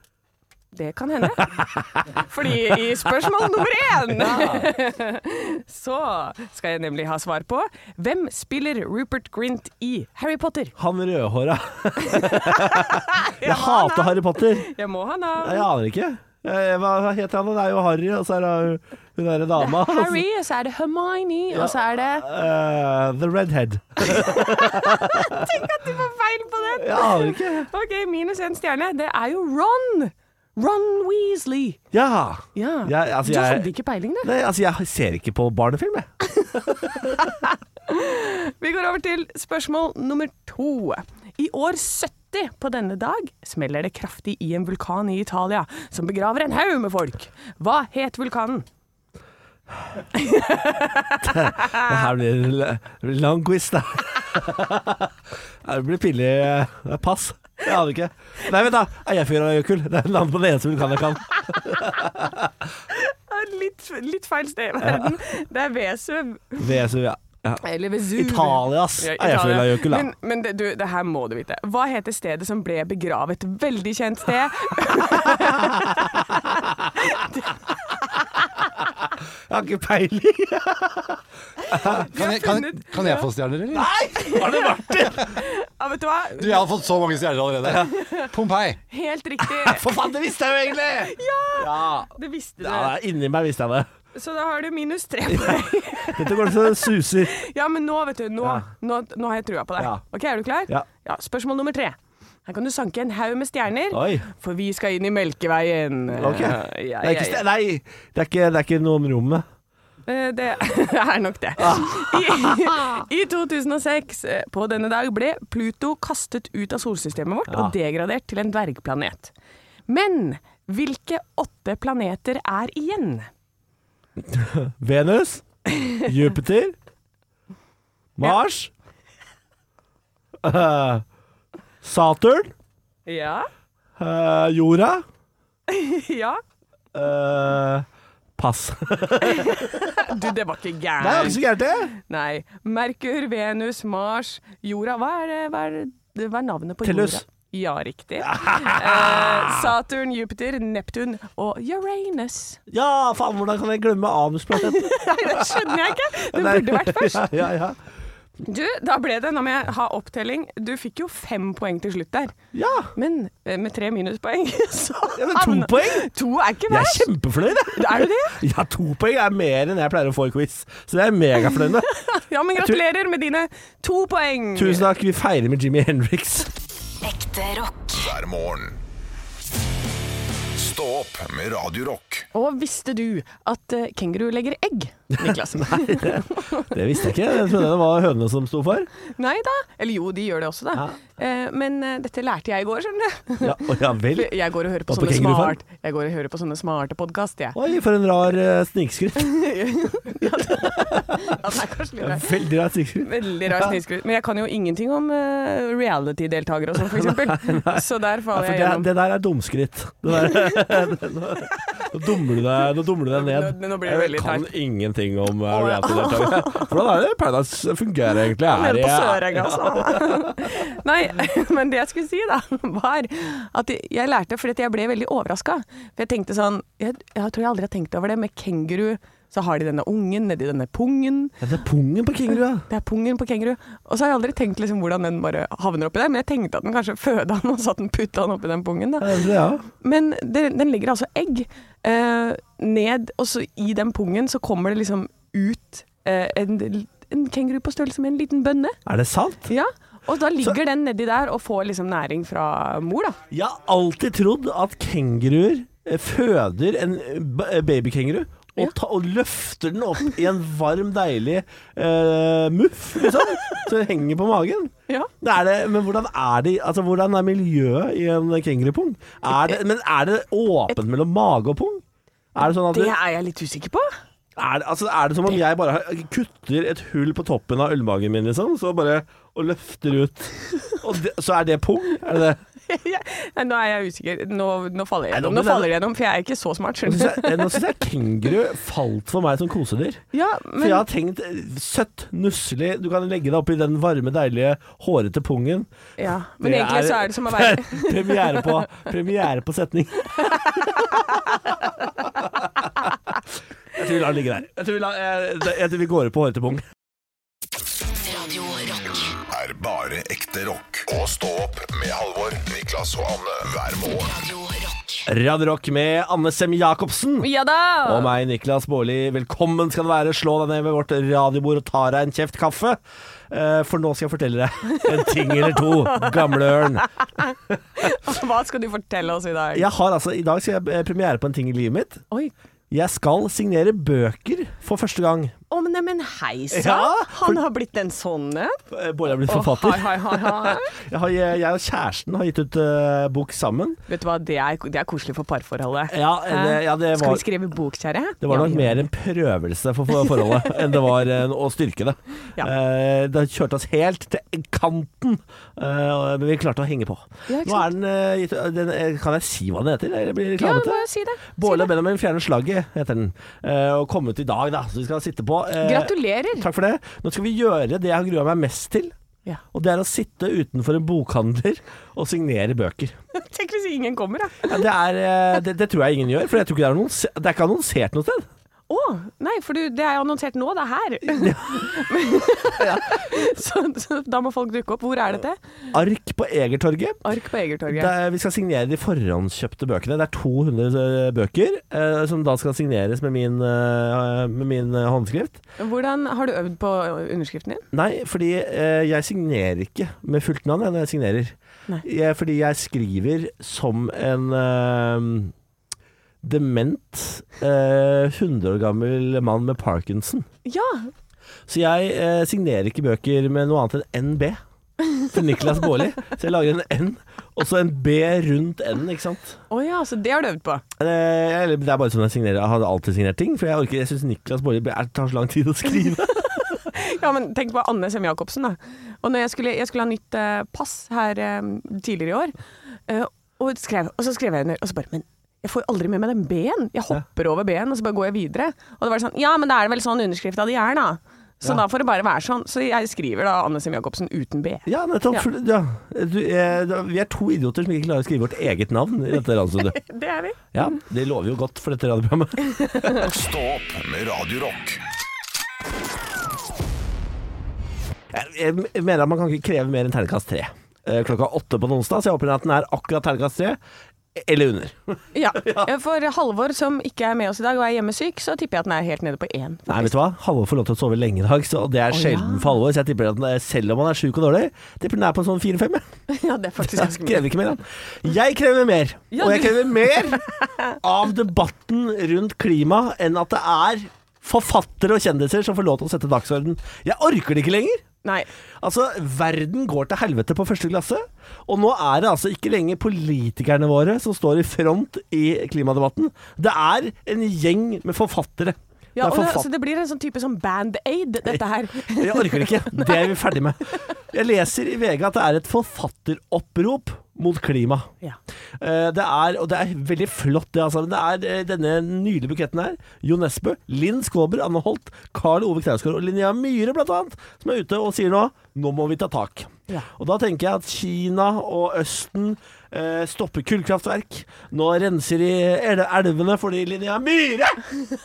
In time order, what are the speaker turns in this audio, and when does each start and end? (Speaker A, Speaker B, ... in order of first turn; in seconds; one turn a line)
Speaker A: 0.7-10.7
Speaker B: 1.6-2.0
Speaker B: 4.1-4.7
Speaker B: 10.8-14.7
Speaker A: 12.0-15.7
Speaker B: 15.4-20.2
Speaker A: 19.6-22.2
Speaker B: 21.5-25.5
Speaker A: 24.0-31.8
Speaker B: 26.8-27.7
Speaker B: 31.9-33.7
Speaker A: 32.5-34.3
Speaker B: 34.2-37.1
Speaker A: 37.1-48.6
Speaker A: 50.1-52.0
Speaker B: 51.2-62.7
Speaker A: 62.9-66.7
Speaker B: 64.8-65.2
Speaker B: 66.6-70.1
Speaker A: 67.6-78.2
Speaker B: 75.4-76.1
Speaker B: 79.5-82.1
Speaker A: 81.6-83.3
Speaker C: 82.1-83.9
Speaker B: 83.7-85.4
Speaker A: 84.2-86.7
Speaker C: 86.4-88.8
Speaker B: 87.6-87.9
Speaker A: 87.8-88.3
Speaker A: 88.9-89.9
Speaker B: 89.4-93.9
Speaker A: 90.9-92.9
Speaker A: 94.1-107.4
Speaker B: 95.3-97.3
Speaker B: 103.9-104.2
Speaker B: 106.1-109.4
Speaker A: 110.0-119.3
Speaker B: 111.6-113.0
Speaker B: 117.5-117.7
Speaker A: 119.9-123.3
Speaker B: 124.2-126.7
Speaker B: 128.2-128.7
Speaker B: 130.4-131.0
Speaker B: 131.8-132.5
Speaker A: 133.1-133.5
Speaker B: 134.0-135.0
Speaker A: 135.7-136.4
Speaker B: 136.9-137.8
Speaker B: 138.4-140.1
Speaker A: 139.2-152.6
Speaker B: 141.0-141.9
Speaker B: 146.8-147.2
Speaker B: 148.2-149.7
Speaker B: 152.7-157.8
Speaker A: 154.5-157.3
Speaker A: 158.4-162.3
Speaker B: 162.5-162.9
Speaker A: 162.9-168.4
Speaker B: 165.2-166.1
Speaker B: 166.7-171.9
Speaker A: 171.8-174.9
Speaker B: 174.5-176.5
Speaker D: 177.0-178.1
Speaker E: 177.9-178.8
Speaker E: 180.5-182.2
Speaker A: 182.3-186.7
Speaker B: 185.2-188.9
Speaker A: 189.1-197.6
Speaker B: 193.4-194.3
Speaker B: 194.9-195.6
Speaker B: 197.5-199.4
Speaker A: 199.2-202.3
Speaker B: 200.5-201.3
Speaker B: 202.0-203.8
Speaker A: 203.0-208.9
Speaker B: 206.8-220.5
Speaker A: 210.2-210.6
Speaker A: 213.1-214.5
Speaker A: 215.5-216.8
Speaker A: 218.4-231.4
Speaker B: 231.4-232.6
Speaker A: 232.7-248.8
Speaker B: 239.0-239.6
Speaker B: 248.8-249.5
Speaker A: 249.5-253.2
Speaker B: 253.3-271.8
Speaker B: 272.3-272.9
Speaker A: 272.4-273.9
Speaker B: 274.4-282.4
Speaker A: 282.7-287.6
Speaker B: 285.1-285.7
Speaker B: 286.9-290.0
Speaker A: 290.1-290.9
Speaker B: 290.6-295.7
Speaker A: 296.0-298.6
Speaker B: 296.3-301.0
Speaker A: 300.3-301.2
Speaker B: 302.0-302.7
Speaker B: 303.7-306.6
Speaker D: 307.9-309.1
Speaker E: 309.3-314.1
Speaker D: 314.0-315.1
Speaker B: 315.1-317.3
Speaker A: 317.2-318.1
Speaker B: 317.9-322.8
Speaker B: 323.3-326.9
Speaker A: 324.7-329.7
Speaker B: 329.5-332.0
Speaker B: 332.7-335.4
Speaker A: 335.5-338.6
Speaker B: 336.5-337.4
Speaker B: 338.7-343.8
Speaker A: 339.2-340.7
Speaker A: 343.9-348.8
Speaker B: 345.9-347.2
Speaker B: 348.2-368.9
Speaker A: 350.0-350.5
Speaker A: 357.3-357.7
Speaker A: 360.4-361.7
Speaker A: 365.6-366.4
Speaker B: 369.5-372.9
Speaker A: 373.1-374.6
Speaker B: 374.4-378.3
Speaker A: 378.7-385.4
Speaker B: 381.1-381.8
Speaker B: 382.6-383.0
Speaker B: 385.7-387.0
Speaker A: 387.0-387.9
Speaker B: 387.7-395.4
Speaker A: 395.6-397.6
Speaker B: 397.7-405.3
Speaker B: 406.2-410.3
Speaker A: 410.4-410.9
Speaker B: 411.5-414.4
Speaker B: 415.0-419.4
Speaker A: 419.5-420.6
Speaker B: 420.8-426.6
Speaker A: 426.2-432.4
Speaker A: 432.9-445.3
Speaker B: 444.6-449.8
Speaker A: 449.6-450.4
Speaker B: 450.5-453.0
Speaker A: 452.5-453.1
Speaker E: 453.0-454.8
Speaker B: 458.1-463.6
Speaker B: 464.1-465.7
Speaker A: 465.1-469.9
Speaker B: 469.7-475.8
Speaker A: 471.9-472.5
Speaker A: 476.1-477.3
Speaker B: 476.6-480.2
Speaker A: 479.1-480.7
Speaker B: 480.8-487.8
Speaker B: 488.6-499.5
Speaker A: 498.9-503.1
Speaker B: 501.3-507.9
Speaker B: 508.6-527.6